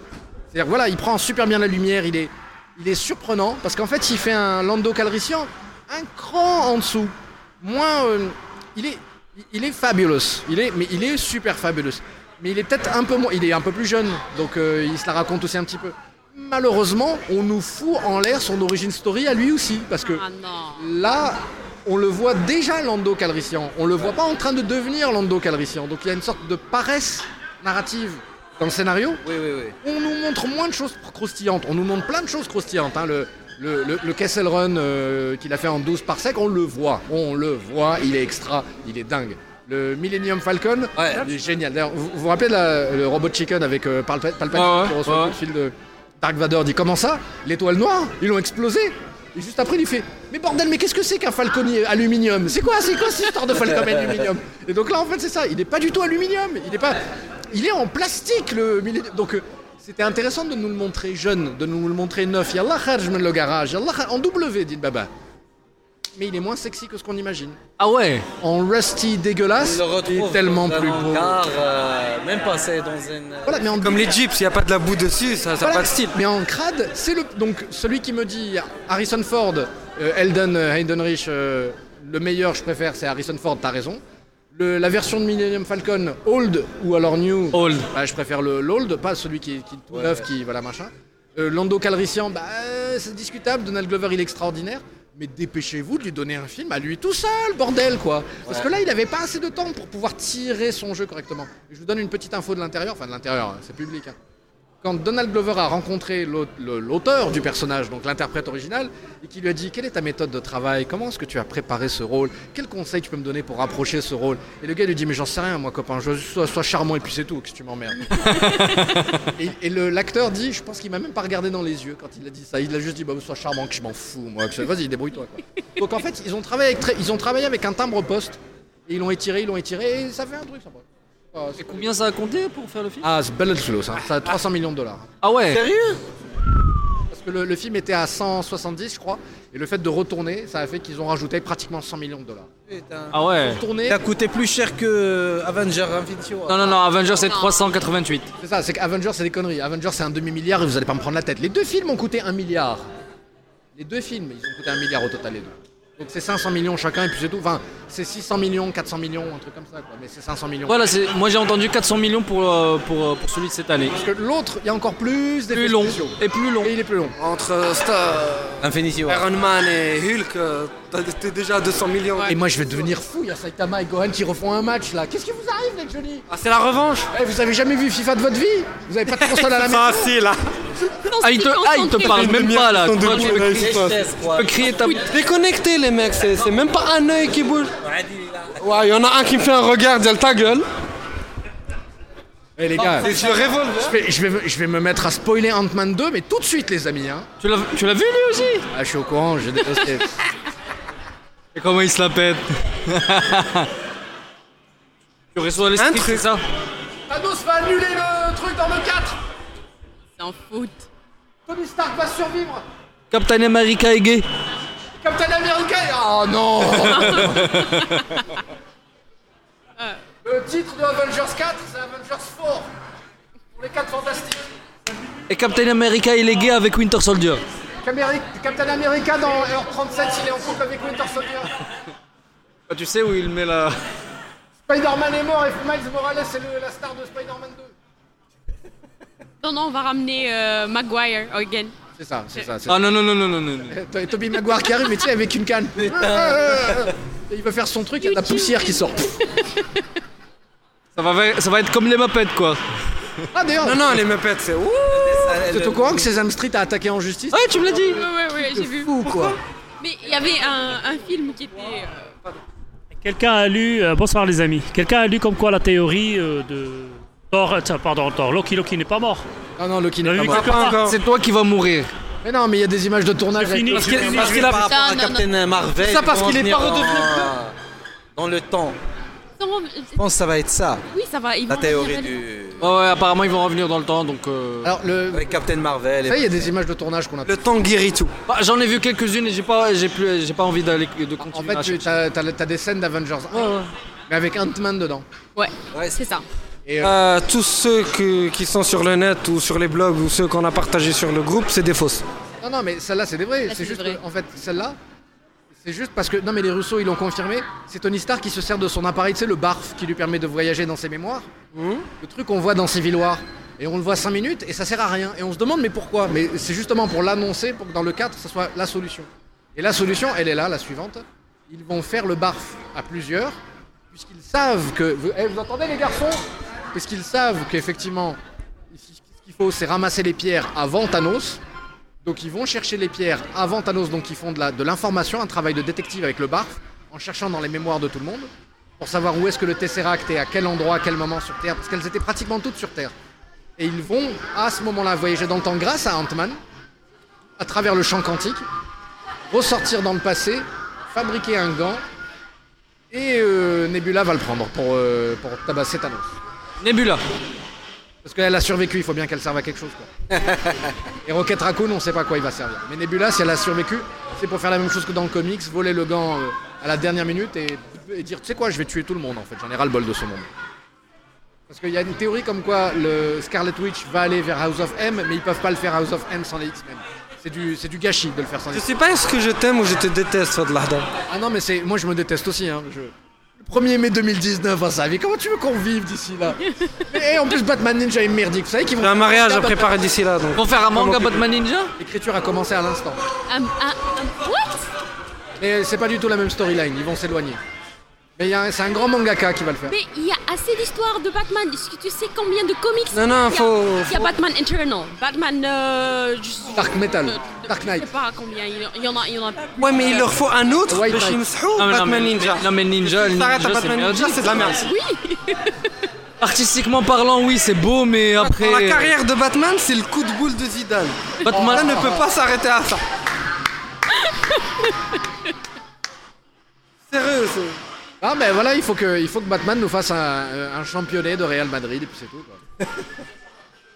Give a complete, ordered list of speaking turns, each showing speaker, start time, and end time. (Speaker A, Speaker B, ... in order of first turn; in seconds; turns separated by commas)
Speaker A: 0.5-20.2, Speaker B: 20.0-20.9, Speaker A: 20.8-29.2, Speaker C: 29.2-29.8, Speaker A: 29.8-57.0, Speaker C: 41.0-41.3, Speaker D: 44.5-45.4, Speaker A: 57.5-65.1, Speaker A: 66.2-67.6, Speaker D: 67.8-68.2, Speaker A: 68.4-71.4, Speaker C: 69.6-73.7, Speaker A: 73.5-74.2, Speaker E: 73.8-76.1, Speaker A: 75.6-84.0, Speaker A: 84.5-104.2, Speaker D: 87.5-87.9, Speaker C: 89.9-90.2, Speaker C: 98.4-98.7, Speaker A: 104.8-131.9, Speaker B: 118.2-119.0, Speaker D: 131.6-133.1, Speaker A: 133.0-135.1, Speaker D: 135.2-135.6, Speaker C: 135.5-136.0, Speaker A: 137.1-142.5, Speaker C: 142.7-143.2, Speaker D: 143.1-143.6, Speaker A: 143.5-144.0, Speaker C: 143.8-146.8, Speaker D: 146.5-148.3, Speaker B: 147.3-147.7, Speaker A: 148.4-152.8, Speaker A: 153.8-160.8, Speaker D: 160.7-164.0, Speaker A: 163.9-167.2, Speaker D: 165.5-166.7, Speaker E: 167.2-172.3, Speaker C: 168.6-169.2, Speaker A: 172.3-176.3, Speaker E: 176.3-177.1, Speaker A: 177.1-180.1, Speaker E: 179.2-180.4, Speaker B: 180.9-182.4, Speaker D: 181.2-185.0, Speaker E: 182.0-184.0, Speaker C: 183.0-184.7, Speaker E: 185.1-187.7, Speaker C: 187.8-188.6, Speaker E: 188.6-190.7, Speaker A: 192.6-193.2, Speaker C: 192.8-193.5, Speaker E: 193.0-193.9, Speaker A: 193.8-197.3, Speaker D: 197.4-198.7, Speaker A: 198.7-200.1, Speaker D: 201.5-203.7, Speaker D: 205.3-206.4, Speaker E: 205.8-206.2, Speaker A: 207.1-209.2, Speaker B: 210.2-210.9, Speaker A: 211.5-212.7, Speaker D: 213.1-214.2, Speaker A: 215.0-217.8, Speaker B: 217.0-218.2, Speaker D: 217.3-218.0, Speaker A: 220.2-222.7, Speaker A: 223.5-224.5, Speaker D: 225.3-227.4, Speaker A: 227.8-231.5, Speaker D: 232.7-233.8, Speaker A: 234.7-237.7, Speaker B: 239.4-241.8, Speaker A: 242.0-242.8, Speaker D: 242.7-243.8, Speaker A: 243.7-249.1, Speaker C: 245.8-246.8, Speaker B: 248.0-249.8, Speaker D: 250.9-252.6, Speaker A: 253.3-254.0, Speaker E: 253.6-255.4, Speaker C: 254.9-256.1, Speaker A: 255.4-257.9, Speaker D: 257.3-258.0, Speaker B: 257.9-258.9, Speaker A: 258.5-259.4, Speaker B: 259.8-262.1, Speaker F: 262.9-269.2, Speaker A: 269.6-270.5, Speaker F: 270.0-270.8, Speaker E: 270.2-271.0, Speaker D: 270.6-271.9, Speaker A: 272.2-274.3, Speaker F: 273.4-274.6, Speaker C: 273.9-277.6, Speaker E: 274.0-274.7, Speaker B: 274.6-275.3, Speaker A: 275.9-277.2, Speaker E: 276.0-276.7, Speaker C: 278.1-278.8, Speaker B: 279.4-280.0, Speaker C: 280.0-280.8, Speaker B: 280.9-282.2, Speaker C: 281.5-282.7, Speaker D: 282.6-284.7, Speaker A: 284.6-285.4, Speaker C: 285.1-286.5, Speaker A: 286.0-287.4, Speaker E: 287.2-288.1, Speaker D: 288.3-291.9, Speaker A: 291.2-295.1, Speaker D: 293.3-293.7, Speaker B: 295.4-296.2, Speaker C: 295.7-296.0, Speaker A: 296.6-296.9, Speaker E: 296.8-302.0, Speaker A: 302.4-304.8, Speaker B: 303.5-304.0, Speaker A: 305.6-311.3, Speaker E: 311.5-311.9, Speaker A: 312.0-323.4, Speaker A: 323.9-326.2, Speaker A: 326.7-328.2, Speaker A: 328.7-331.4, Speaker A: 332.0-342.9, Speaker A: 343.6-346.4, Speaker A: 347.4-348.4, Speaker A: 349.3-351.8, Speaker A: 352.9-356.2, Speaker D: 356.6-357.0, Speaker A: 358.0-359.9, Speaker A: 361.0-370.3, Speaker A: 371.5-378.7, Speaker E: 378.5-380.9, Speaker A: 381.1-389.8, Speaker E: 388.8-391.1, Speaker D: 390.4-391.7, Speaker A: 390.8-391.1, Speaker A: 391.8-393.0, Speaker B: 393.3-394.6, Speaker A: 395.4-397.4, Speaker A: 398.2-399.8, Speaker B: 399.7-410.1, Speaker E: 402.9-404.1, Speaker A: 406.5-407.9, Speaker E: 409.6-414.7, Speaker A: 410.7-411.2, Speaker D: 411.6-414.6, Speaker B: 414.6-415.8, Speaker D: 416.2-418.9, Speaker E: 418.2-422.8, Speaker D: 421.3-421.6, Speaker A: 421.3-422.0, Speaker B: 423.9-425.0, Speaker E: 426.9-427.6, Speaker A: 428.0-432.4